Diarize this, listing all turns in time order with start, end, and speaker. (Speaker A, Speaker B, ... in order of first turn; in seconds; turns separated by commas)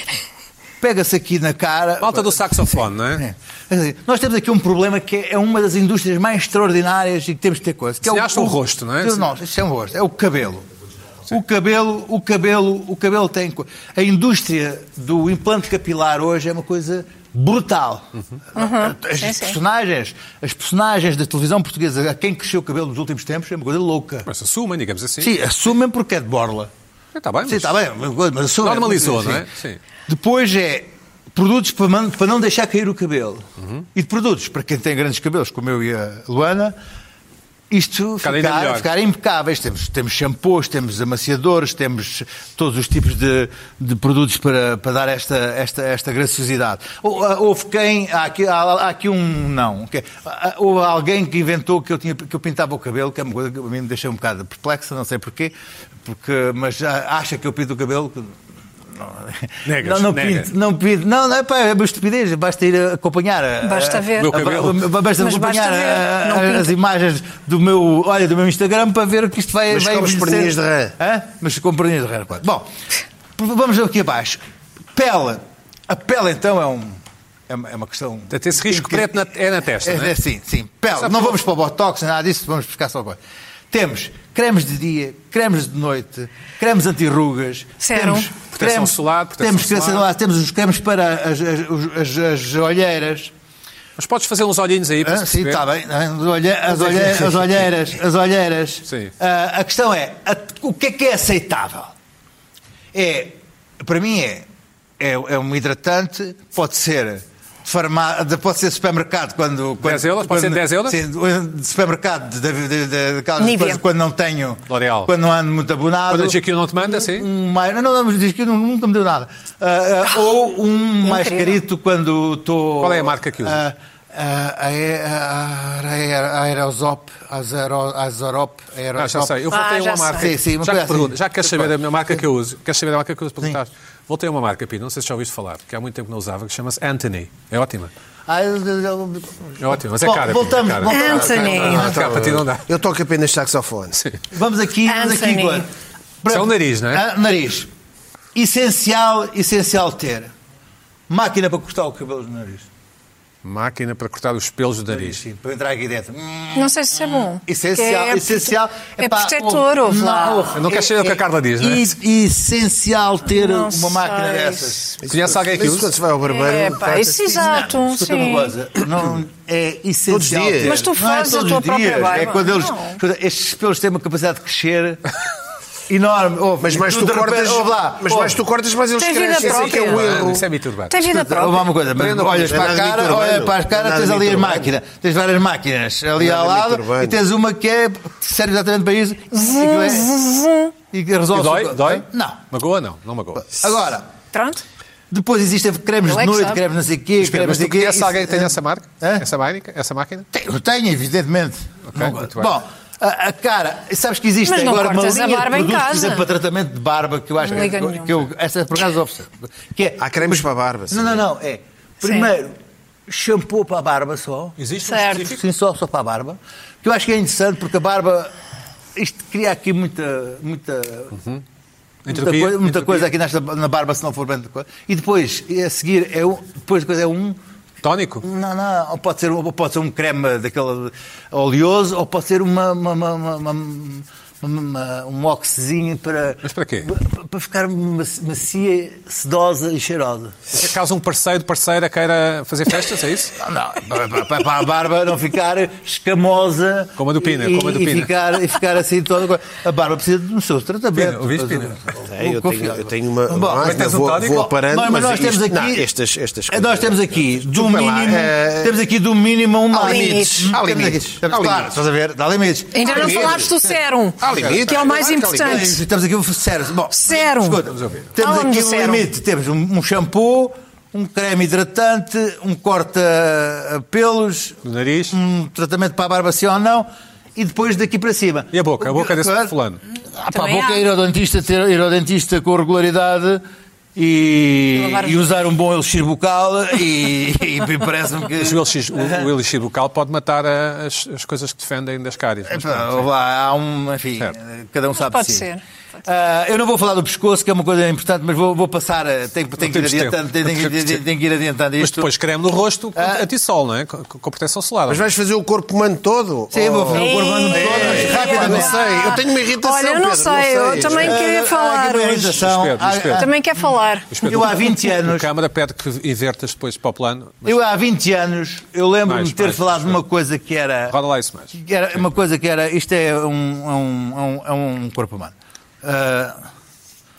Speaker A: 0.8-10.7, Speaker B: 2.0-3.2, Speaker B: 8.0-9.2, Speaker A: 11.3-24.3, Speaker C: 18.5-19.6, Speaker B: 24.2-25.3, Speaker A: 25.2-26.7, Speaker B: 27.1-27.8, Speaker A: 27.4-29.4, Speaker B: 28.6-29.8, Speaker A: 30.1-36.8, Speaker B: 33.6-33.9, Speaker A: 37.7-55.5, Speaker B: 38.2-38.9, Speaker A: 56.0-58.4, Speaker A: 58.9-72.7, Speaker B: 59.6-60.5, Speaker C: 63.6-64.4, Speaker B: 64.2-64.9, Speaker C: 65.2-66.7, Speaker D: 69.7-71.0, Speaker A: 73.4-74.4, Speaker A: 74.9-79.2, Speaker B: 78.3-80.1, Speaker A: 79.8-83.2, Speaker B: 81.0-81.4, Speaker A: 83.7-93.3, Speaker C: 87.8-88.3, Speaker B: 88.5-90.0, Speaker B: 94.0-95.6, Speaker A: 95.0-101.9, Speaker B: 96.7-97.6, Speaker B: 98.9-99.1, Speaker A: 102.9-104.5, Speaker A: 105.0-129.5, Speaker B: 109.8-111.0, Speaker C: 113.4-113.8, Speaker B: 114.7-115.1, Speaker B: 116.1-117.3, Speaker C: 121.0-121.6, Speaker B: 122.8-123.6, Speaker B: 128.9-137.9, Speaker C: 129.5-130.3, Speaker A: 130.1-131.8, Speaker A: 138.3-141.9, Speaker B: 139.6-142.7, Speaker C: 140.8-141.9, Speaker D: 141.1-144.0, Speaker A: 144.3-145.7, Speaker C: 144.9-145.6, Speaker A: 146.2-147.7, Speaker B: 146.3-147.0, Speaker A: 148.3-150.3, Speaker A: 151.1-152.7, Speaker B: 153.4-155.2, Speaker A: 154.9-164.9, Speaker C: 156.5-160.6, Speaker B: 160.5-161.9, Speaker C: 163.2-165.0, Speaker D: 165.0-167.4, Speaker B: 165.0-166.0, Speaker C: 166.3-168.5, Speaker A: 167.3-175.1, Speaker D: 170.1-170.9, Speaker C: 170.6-173.0, Speaker A: 175.9-178.4, Speaker D: 176.6-180.4, Speaker C: 179.0-180.0, Speaker B: 179.7-181.0, Speaker C: 180.9-181.7, Speaker A: 181.0-190.1, Speaker B: 181.9-182.7, Speaker D: 182.2-184.7, Speaker D: 186.2-187.2, Speaker C: 189.3-190.7, Speaker A: 190.9-192.4, Speaker B: 191.3-193.5, Speaker A: 193.5-194.1, Speaker C: 194.3-194.6, Speaker A: 195.1-199.3, Speaker C: 196.0-196.6, Speaker B: 197.2-200.3, Speaker A: 200.3-212.5, Speaker B: 201.9-202.5, Speaker C: 204.4-206.2, Speaker C: 207.4-208.3, Speaker D: 210.0-211.2, Speaker C: 212.0-212.3, Speaker A: 213.1-214.6, Speaker B: 214.6-215.4, Speaker C: 214.8-215.3, Speaker A: 215.1-218.3, Speaker A: 218.9-221.1, Speaker B: 221.1-221.4, Speaker B: 222.1-223.1, Speaker A: 222.1-227.4, Speaker B: 227.8-228.2, Speaker A: 228.2-240.4, Speaker B: 236.4-236.9, Speaker B: 240.5-243.3, Speaker A: 243.4-255.9, Speaker B: 247.0-248.1, Speaker B: 250.9-251.9, Speaker D: 252.0-258.7, Speaker B: 253.6-254.5, Speaker A: 256.5-263.8, Speaker D: 259.7-261.7, Speaker C: 259.7-260.6, Speaker C: 262.7-265.8, Speaker D: 262.9-263.5, Speaker D: 264.2-265.8, Speaker A: 265.4-274.6, Speaker C: 266.9-267.6, Speaker C: 268.2-269.1, Speaker B: 274.6-275.2, Speaker A: 275.1-279.5, Speaker B: 278.5-279.8, Speaker A: 280.1-283.4, Speaker C: 280.3-280.9, Speaker A: 283.9-289.3, Speaker C: 284.7-285.3, Speaker B: 288.4-293.1, Speaker A: 292.5-295.5, Speaker C: 294.9-295.6, Speaker A: 296.0-302.1, Speaker B: 299.6-301.0, Speaker B: 301.8-305.0, Speaker A: 303.0-303.2, Speaker D: 304.9-311.2, Speaker A: 306.5-308.9, Speaker C: 306.9-312.5, Speaker A: 310.8-313.3, Speaker B: 312.4-313.3, Speaker C: 313.1-314.3, Speaker B: 314.1-317.6, Speaker A: 314.2-315.2, Speaker A: 317.4-320.9, Speaker B: 319.1-320.0, Speaker B: 320.9-322.2, Speaker A: 321.5-326.4